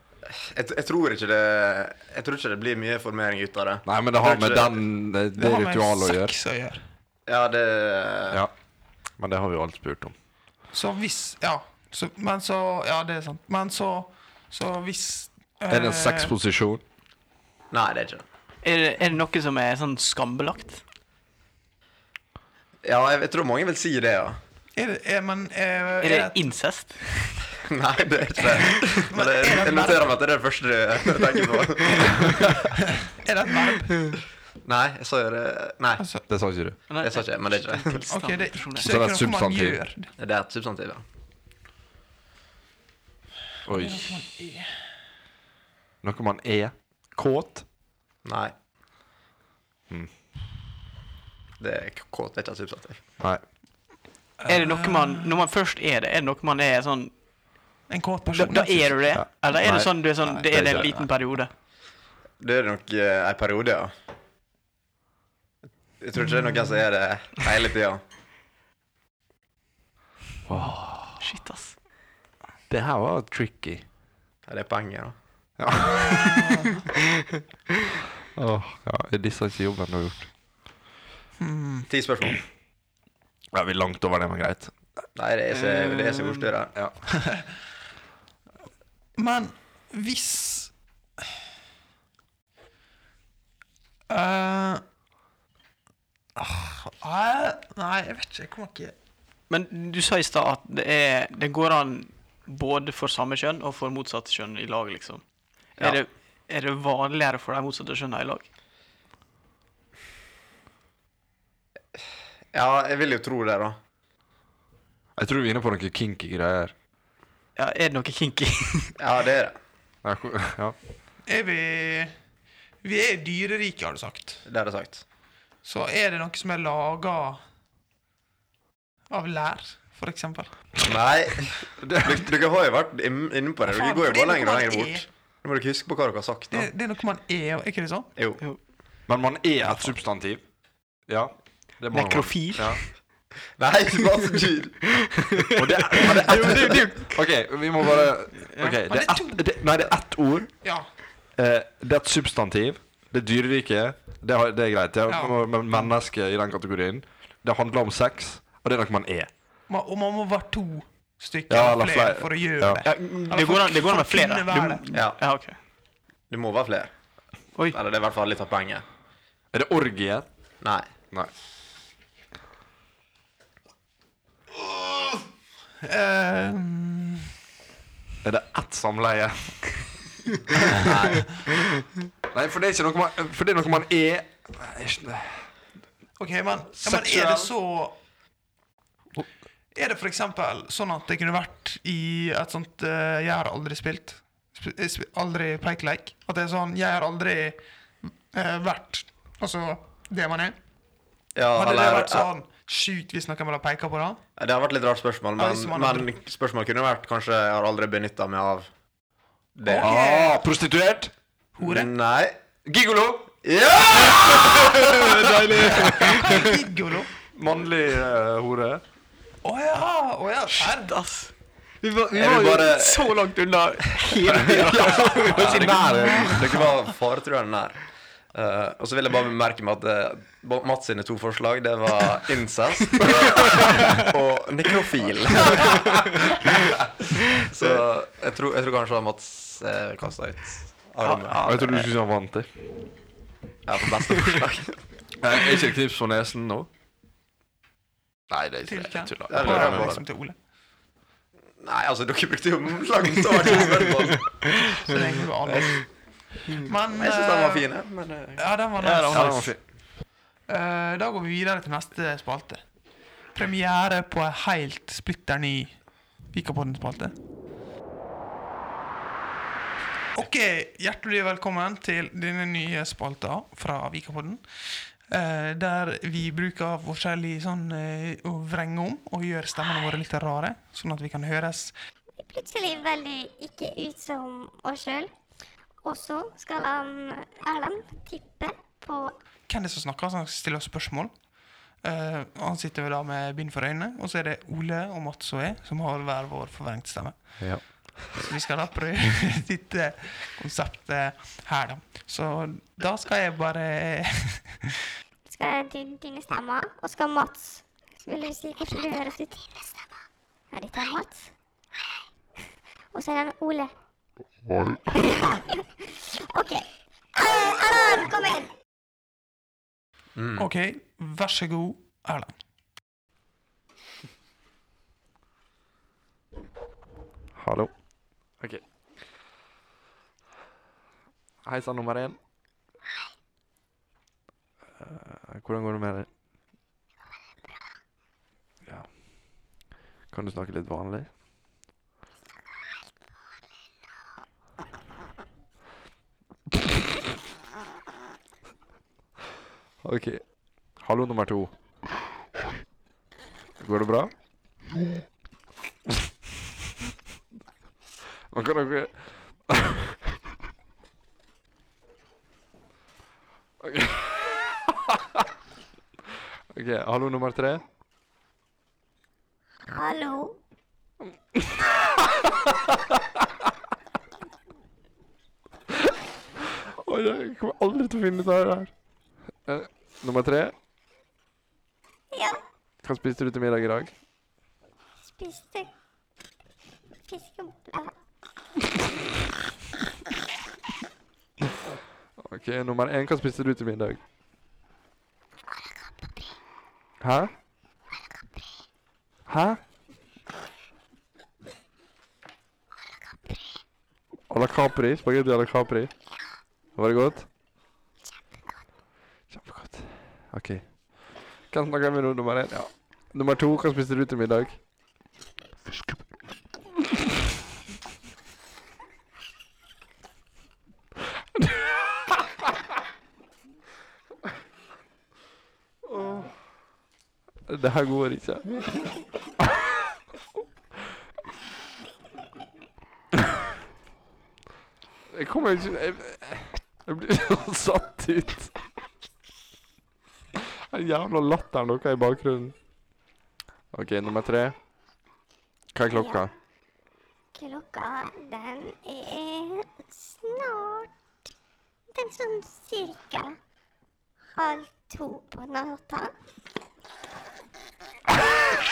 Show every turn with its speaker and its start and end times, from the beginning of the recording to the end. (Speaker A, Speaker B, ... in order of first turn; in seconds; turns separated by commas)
Speaker A: 0.3-4.8, Speaker B: 3.9-6.3, Speaker C: 5.4-6.8, Speaker A: 7.3-8.4, Speaker B: 9.2-10.1, Speaker C: 10.7-16.4, Speaker B: 15.7-16.8, Speaker A: 17.7-18.2, Speaker D: 18.6-20.8, Speaker A: 22.8-24.4, Speaker C: 24.8-26.4, Speaker D: 26.0-27.4, Speaker A: 27.6-32.6, Speaker C: 28.6-30.1, Speaker C: 32.9-34.1, Speaker A: 34.6-36.0, Speaker C: 36.0-36.2, Speaker B: 36.3-36.8, Speaker D: 36.9-38.9, Speaker A: 37.0-38.0, Speaker C: 38.1-40.1, Speaker B: 38.8-39.8, Speaker A: 40.2-41.0, Speaker B: 43.6-44.3, Speaker C: 43.7-44.7, Speaker B: 46.0-47.6, Speaker A: 48.2-48.5, Speaker A: 51.6-53.0, Speaker C: 54.4-55.4, Speaker D: 54.5-57.1, Speaker C: 57.9-59.0, Speaker D: 58.3-61.5, Speaker B: 59.1-61.1, Speaker A: 62.4-63.9, Speaker A: 66.0-68.0, Speaker C: 66.2-66.6, Speaker B: 70.5-71.2, Speaker D: 71.2-71.7, Speaker B: 72.7-73.9, Speaker A: 74.5-75.1, Speaker B: 75.6-76.5, Speaker C: 76.0-76.7, Speaker B: 78.3-80.3, Speaker C: 81.4-81.9, Speaker A: 81.9-82.4, Speaker B: 83.5-84.7, Speaker A: 85.2-86.7, Speaker D: 85.5-86.5, Speaker C: 87.2-87.5, Speaker C: 89.2-90.7, Speaker C: 94.1-94.8, Speaker C: 96.4-98.9, Speaker D: 99.5-105.2, Speaker D: 105.8-108.5, Speaker A: 112.5-113.8, Speaker B: 115.2-116.7, Speaker D: 117.5-119.0, Speaker A: 119.0-119.5, Speaker B: 120.0-120.8, Speaker C: 121.3-122.1, Speaker C: 122.8-124.4, Speaker A: 124.4-125.0, Speaker C: 125.6-127.4, Speaker C: 129.1-130.5, Speaker A: 130.8-136.7, Speaker B: 131.8-132.2, Speaker C: 133.7-135.0, Speaker C: 136.5-138.1, Speaker A: 138.2-138.4, Speaker B: 139.1-140.4, Speaker B: 141.1-142.8, Speaker D: 141.9-142.8, Speaker A: 143.6-144.9, Speaker D: 145.1-147.2, Speaker B: 145.5-150.5, Speaker A: 146.4-146.7, Speaker D: 148.5-148.8, Speaker C: 148.9-149.4, Speaker C: 150.6-150.9, Speaker B: 151.4-159.3, Speaker C: 155.1-155.5, Speaker C: 159.7-164.8, Speaker B: 161.5-162.8, Speaker D: 162.8-165.6, Speaker A: 164.9-165.2, Speaker A: 166.3-166.9, Speaker A: 167.7-168.8, Speaker B: 169.5-170.3, Speaker A: 170.6-170.9, Speaker C: 175.8-177.3, Speaker B: 178.2-179.8, Speaker A: 180.7-181.3, Speaker B: 182.3-185.5, Speaker C: 186.2-187.9, Speaker B: 186.8-187.5, Speaker C: 189.7-200.6, Speaker A: 201.3-202.3, Speaker C: 201.5-204.2, Speaker A: 204.4-208.7, Speaker C: 205.4-206.1, Speaker A: 209.6-209.9, Speaker C: 209.7-210.4, Speaker B: 209.8-211.1, Speaker C: 211.6-211.9, Speaker A: 211.6-212.4, Speaker B: 212.6-213.4, Speaker A: 213.4-215.3, Speaker B: 213.9-216.1, Speaker D: 215.0-216.5, Speaker C: 215.6-217.1, Speaker B: 217.3-218.8, Speaker C: 219.4-220.9, Speaker D: 220.5-226.7, Speaker A: 222.1-223.2, Speaker A: 224.3-227.8, Speaker B: 224.4-225.9, Speaker A: 228.3-236.4, Speaker A: 237.4-241.4, Speaker D: 241.0-241.9, Speaker B: 241.4-242.5, Speaker A: 243.7-244.8, Speaker B: 245.2-246.7, Speaker B: 248.3-250.0, Speaker C: 248.6-250.4, Speaker A: 249.3-250.0, Speaker A: 251.6-254.9, Speaker C: 254.8-255.8, Speaker C: 256.4-257.6, Speaker A: 256.9-258.4, Speaker C: 258.4-259.4, Speaker D: 258.8-259.5, Speaker B: 259.1-259.6, Speaker C: 260.5-262.6, Speaker C: 263.3-267.1, Speaker C: 270.1-281.7, Speaker E: 282.2-285.1, Speaker E: 285.8-289.1, Speaker C: 289.5-291.1, Speaker C: 291.8-304.7, Speaker A: 297.4-298.1, Speaker E: 305.2-310.0, Speaker E: 310.5-311.3, Speaker E: 312.9-313.7, Speaker E: 314.9-315.4, Speaker E: 316.3-318.5, Speaker A: 320.1-320.4, Speaker C: 320.4-322.3, Speaker B: 327.4-327.7, Speaker B: 331.4-332.2, Speaker B: 334.8-336.1, Speaker B: 338.6-339.0, Speaker B: 340.1-341.1, Speaker B: 349.8-351.5, Speaker B: 353.6-354.1, Speaker B: 358.3-360.0, Speaker B: 363.6-365.3, Speaker B: 366.5-367.6, Speaker E: 369.7-370.4, Speaker B: 371.0-373.5, Speaker B: 376.6-378.7, Speaker B: 379.4-380.5, Speaker E: 382.1-382.4, Speaker B: 382.8-383.9, Speaker E: 385.0-385.7, Speaker E: 387.1-387.9, Speaker B: 392.2-394.0, Speaker B: 397.0-397.3, Speaker B: 399.3-399.6, Speaker B: 404.3-405.9, Speaker B: 406.8-407.3, Speaker B: 409.3-414.6, Speaker B: 421.4-422.2, Speaker B: 425.9-426.3, Speaker B: 427.5-428.5, Speaker B: 435.1-438.5, Speaker B: 440.4-442.5, Speaker B: 443.7-444.6, Speaker B: 445.7-446.3, Speaker E: 445.9-446.3, Speaker E: 447.3-450.9, Speaker E: 451.9-453.4, Speaker E: 454.4-456.1